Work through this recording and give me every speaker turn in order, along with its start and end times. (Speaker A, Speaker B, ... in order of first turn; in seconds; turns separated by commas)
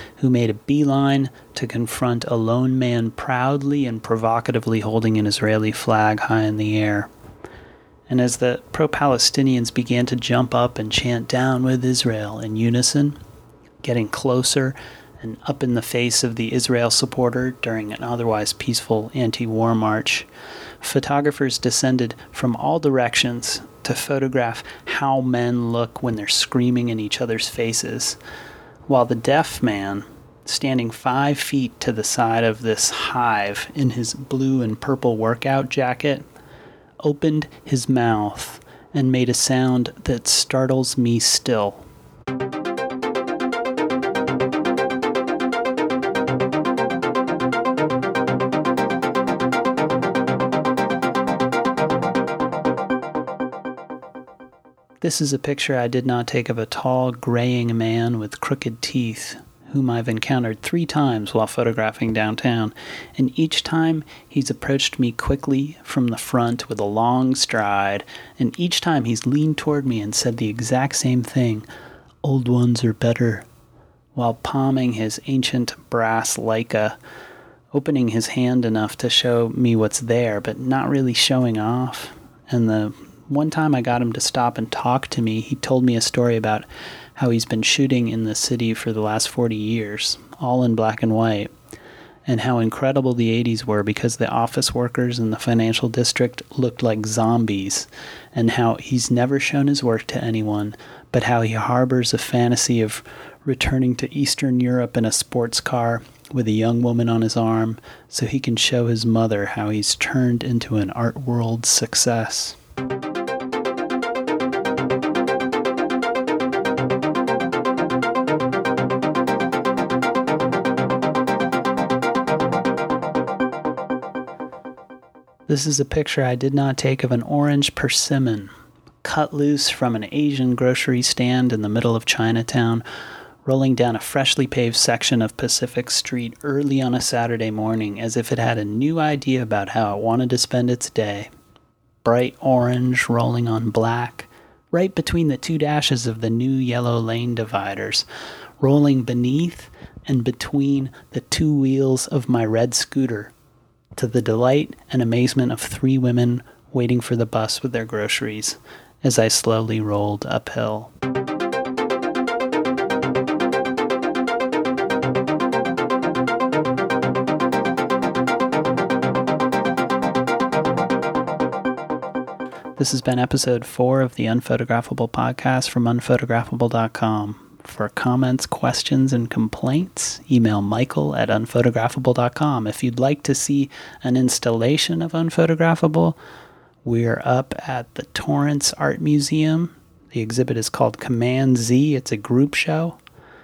Speaker A: 0.2-7.1, Speaker A: 8.1-13.2, Speaker A: 13.8-20.3, Speaker A: 20.8-28.2, Speaker A: 28.9-36.2, Speaker A: 37.0-41.8, Speaker A: 55.0-71.7, Speaker A: 72.2-73.5, Speaker A: 74.1-77.0, Speaker A: 77.7-91.5, Speaker A: 92.2-112.6, Speaker A: 125.5-128.5, Speaker A: 129.0-132.8, Speaker A: 133.4-141.3, Speaker A: 142.0-148.1, Speaker A: 148.6-153.3, Speaker A: 153.9-160.9, Speaker A: 172.8-186.2, Speaker A: 186.8-193.0